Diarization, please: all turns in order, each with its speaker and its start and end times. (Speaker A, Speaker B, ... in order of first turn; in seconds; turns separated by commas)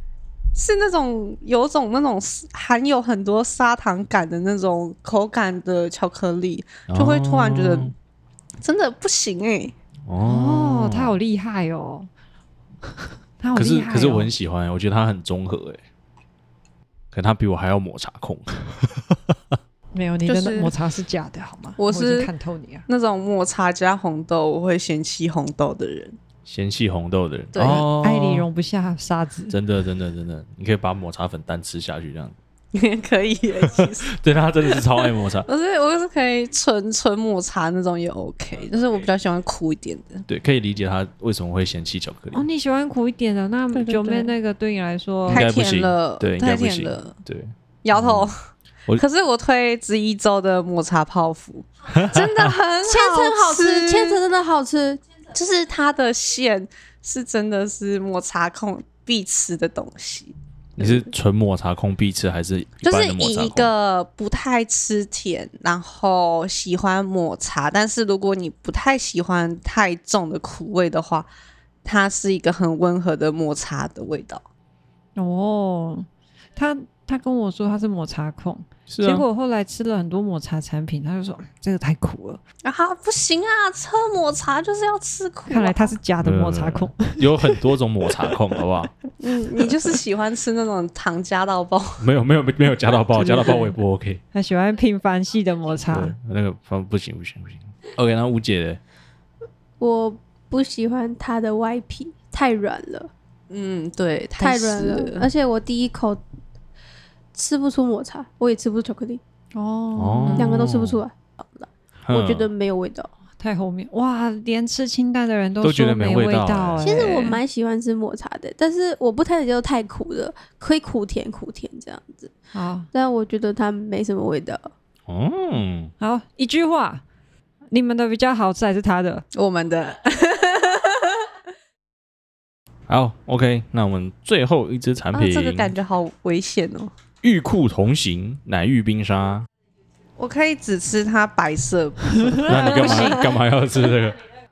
Speaker A: 0.5-7.9, Speaker B: 6.9-7.9, Speaker A: 8.6-9.7, Speaker B: 10.1-11.2, Speaker C: 10.2-12.1, Speaker C: 12.9-14.3, Speaker B: 13.5-15.8, Speaker B: 17.1-19.4, Speaker C: 19.9-22.8, Speaker A: 20.2-20.7, Speaker A: 21.8-22.3, Speaker A: 22.9-26.2, Speaker B: 26.4-28.5, Speaker A: 27.5-27.9, Speaker C: 27.8-29.6, Speaker B: 29.5-32.4, Speaker A: 32.7-34.1, Speaker B: 34.1-35.5, Speaker A: 34.7-40.2, Speaker B: 40.3-42.4, Speaker C: 42.3-45.5, Speaker A: 43.7-44.3, Speaker A: 45.3-47.1, Speaker B: 45.3-48.3, Speaker A: 47.8-48.4, Speaker A: 48.9-54.2, Speaker B: 51.9-52.5, Speaker D: 52.8-55.0, Speaker A: 55.3-61.0, Speaker B: 60.8-63.7, Speaker A: 62.8-71.3, Speaker A: 71.8-74.4, Speaker C: 75.2-82.4, Speaker B: 78.9-79.2, Speaker A: 82.6-86.0, Speaker C: 85.5-87.6, Speaker B: 86.2-88.9, Speaker D: 89.2-89.6, Speaker A: 89.2-92.0, Speaker B: 92.0-94.2, Speaker C: 93.1-93.8, Speaker C: 94.3-96.1, Speaker B: 95.9-98.8, Speaker D: 99.8-103.1, Speaker A: 103.5-105.3, Speaker D: 104.4-106.2, Speaker D: 107.3-109.2, Speaker C: 109.5-110.7, Speaker B: 110.0-111.0, Speaker D: 110.3-113.1, Speaker B: 112.0-112.5, Speaker C: 113.4-117.4, Speaker B: 115.6-117.3, Speaker D: 116.8-122.3, Speaker C: 122.5-122.9, Speaker D: 122.9-124.7, Speaker B: 125.1-125.9, Speaker C: 126.0-127.0, Speaker C: 127.7-129.2, Speaker A: 129.3-131.2, Speaker B: 132.9-135.7, Speaker A: 135.1-136.9, Speaker B: 137.2-139.5, Speaker A: 140.2-143.0, Speaker C: 142.4-143.3, Speaker B: 142.4-144.2